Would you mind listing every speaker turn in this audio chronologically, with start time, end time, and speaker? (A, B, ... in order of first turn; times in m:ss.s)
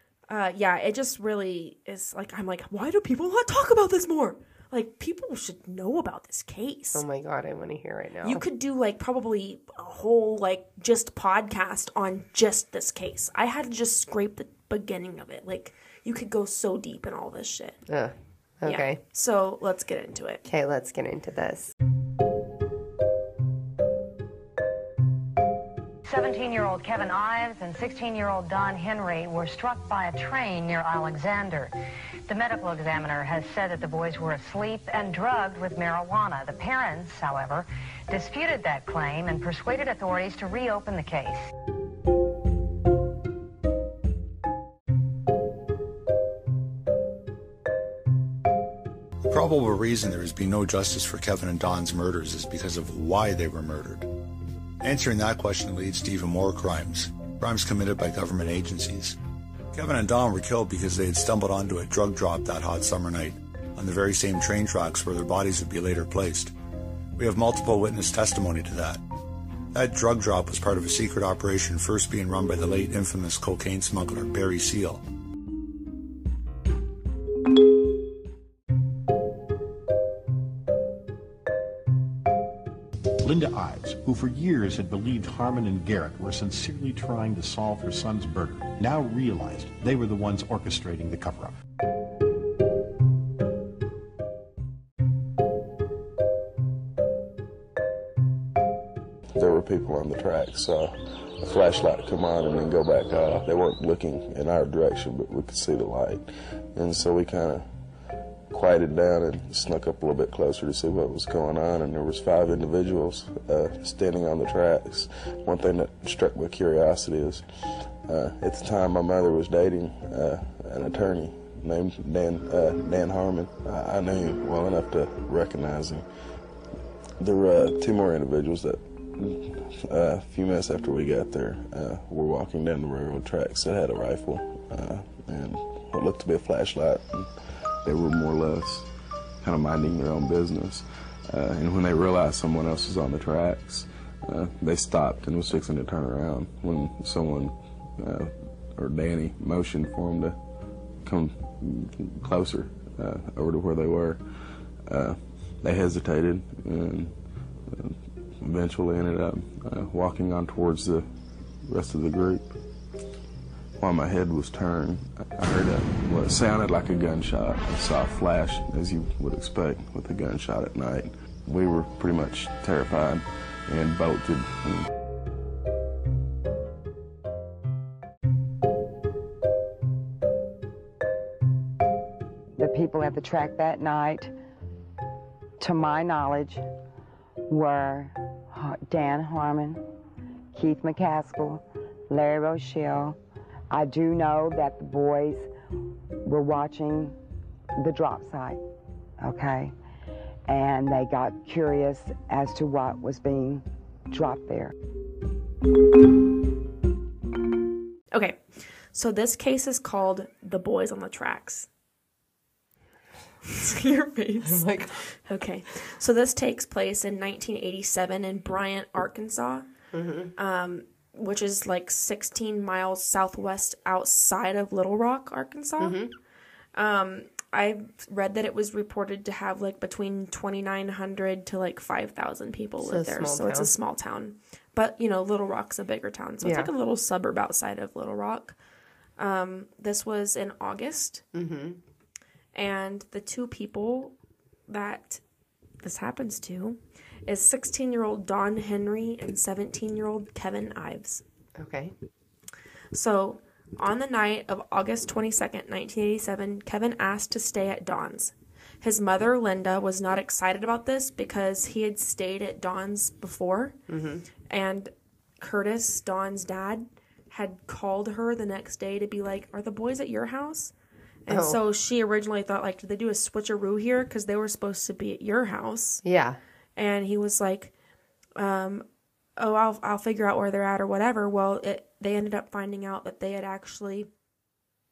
0:00.3-0:07.0 A
0:06.9-0:08.4 B
0:08.2-0:17.8 A
0:17.9-0:19.0 B
0:18.6-0:20.4 A
0:20.4-0:21.7 B
0:26.1-0:31.7 C
0:32.3-0:41.5 C
0:49.3-0:54.1 D
0:54.8-0:59.2 D
0:59.7-1:06.5 D
1:07.2-1:09.0 D
1:09.7-1:15.0 D
1:23.2-1:31.5 E
1:39.3-1:47.6 F
1:48.5-1:57.4 F
1:58.0-2:06.0 F
2:07.2-2:17.3 F
2:17.8-2:18.9 F
2:19.4-2:30.4 F
2:31.0-2:34.2 F
2:34.9-2:41.1 F
2:41.6-2:42.5 F
2:43.8-2:54.9 F
3:02.6-3:04.3 G
3:05.6-3:06.6 G
3:07.5-3:09.8 G
3:10.5-3:13.2 G
3:13.7-3:15.5 G
3:16.2-3:17.1 G
3:17.8-3:18.6 G
3:19.2-3:19.7 G
3:20.5-3:24.7 G
3:28.1-3:31.7 A
3:33.4-3:39.7 A
3:34.4-3:35.0 B
3:39.9-3:40.3 B
3:40.4-3:46.0 A
3:45.8-3:46.1 B
3:46.7-3:58.6 A
3:52.8-3:53.7 B
3:56.4-3:56.7 B
3:59.2-4:01.2 A
4:01.3-4:01.8 B
4:02.5-4:04.1 A
4:04.7-4:05.2 A
4:05.8-4:11.2 A
4:11.6-4:11.9 B
4:12.9-4:23.8 A
4:23.9-4:24.2 B
4:24.5-4:30.7 A
4:31.2-4:36.0 A
4:31.3-4:31.6 B
4:36.0-4:36.4 B
4:36.8-4:37.7 A
4:38.4-4:38.8 A
4:39.4-4:44.1 A